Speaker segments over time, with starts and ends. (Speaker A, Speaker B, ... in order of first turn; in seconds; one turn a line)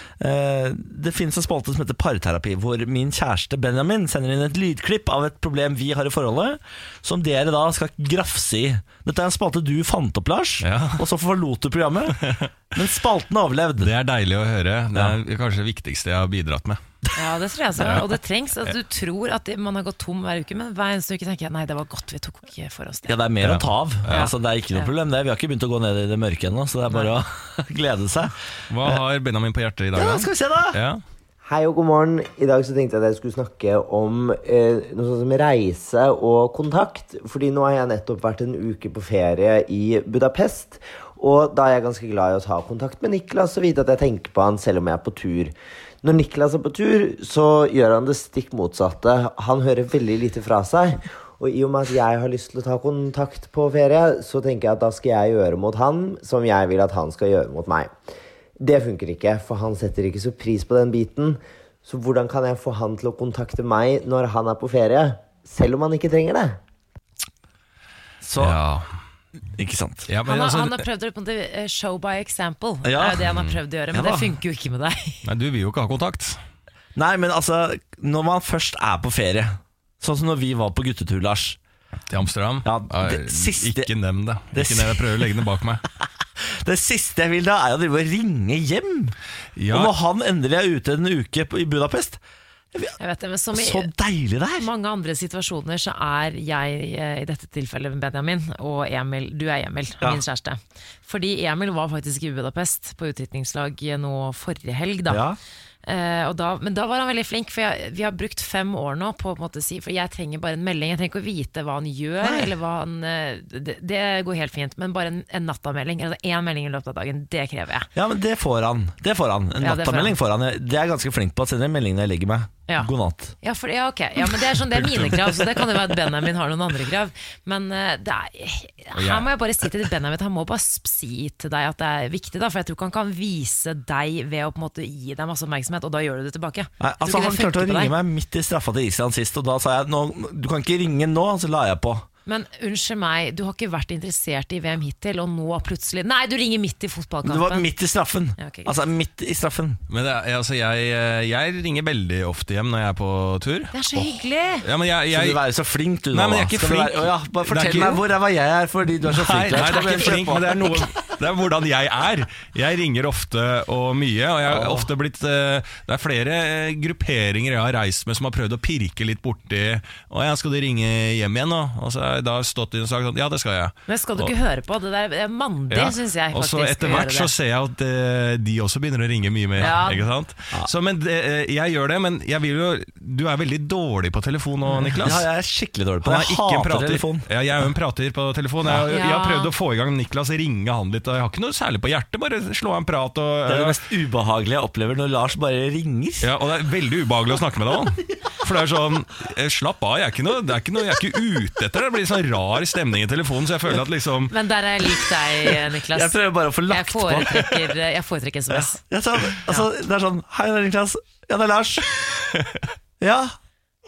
Speaker A: 0.2-13.9
Speaker B: 10.6-11.1
Speaker B: 12.2-12.5
Speaker B: 13.8-16.8
Speaker C: 17.1-23.2
Speaker B: 17.8-18.1
Speaker A: 23.1-29.0
Speaker B: 23.4-24.3
Speaker C: 24.1-24.9
Speaker B: 28.7-31.0
Speaker A: 29.9-30.8
Speaker D: 31.4-57.9
Speaker D: 58.6-66.6
Speaker A: 68.2-68.6
Speaker B: 68.4-69.0
Speaker A: 69.5-70.1
Speaker B: 70.1-70.8
Speaker C: 70.2-75.2
Speaker A: 72.8-73.3
Speaker B: 73.2-73.5
Speaker A: 73.9-74.3
Speaker B: 75.2-76.4
Speaker A: 76.9-81.6
Speaker B: 82.1-85.8
Speaker A: 82.6-83.9
Speaker A: 84.5-85.3
Speaker A: 86.4-89.2
Speaker B: 89.5-89.9
Speaker A: 89.7-92.2
Speaker C: 93.0-93.9
Speaker A: 93.5-94.7
Speaker C: 94.5-105.2
Speaker A: 105.1-105.4
Speaker C: 105.8-117.9
Speaker A: 112.2-112.5
Speaker A: 117.9-123.3
Speaker C: 119.6-120.2
Speaker C: 123.4-137.9
Speaker B: 124.7-125.6
Speaker B: 128.9-129.3
Speaker A: 136.8-142.1
Speaker C: 142.2-147.7
Speaker A: 147.2-149.8
Speaker C: 148.4-148.7
Speaker B: 149.9-153.7
Speaker C: 153.7-154.7
Speaker B: 154.6-155.4
Speaker A: 155.1-160.8
Speaker B: 156.1-158.0
Speaker B: 159.1-174.3
Speaker C: 159.6-160.2
Speaker A: 164.5-164.9
Speaker C: 173.9-177.3
Speaker B: 175.7-185.2
Speaker C: 179.6-180.1
Speaker C: 184.7-185.0
Speaker A: 185.0-187.3
Speaker B: 186.0-193.8
Speaker C: 188.9-189.5
Speaker A: 193.4-196.3
Speaker B: 196.2-204.3
Speaker C: 204.3-208.8
Speaker A: 205.4-207.6
Speaker A: 208.5-212.2
Speaker B: 212.3-212.7
Speaker A: 213.0-213.3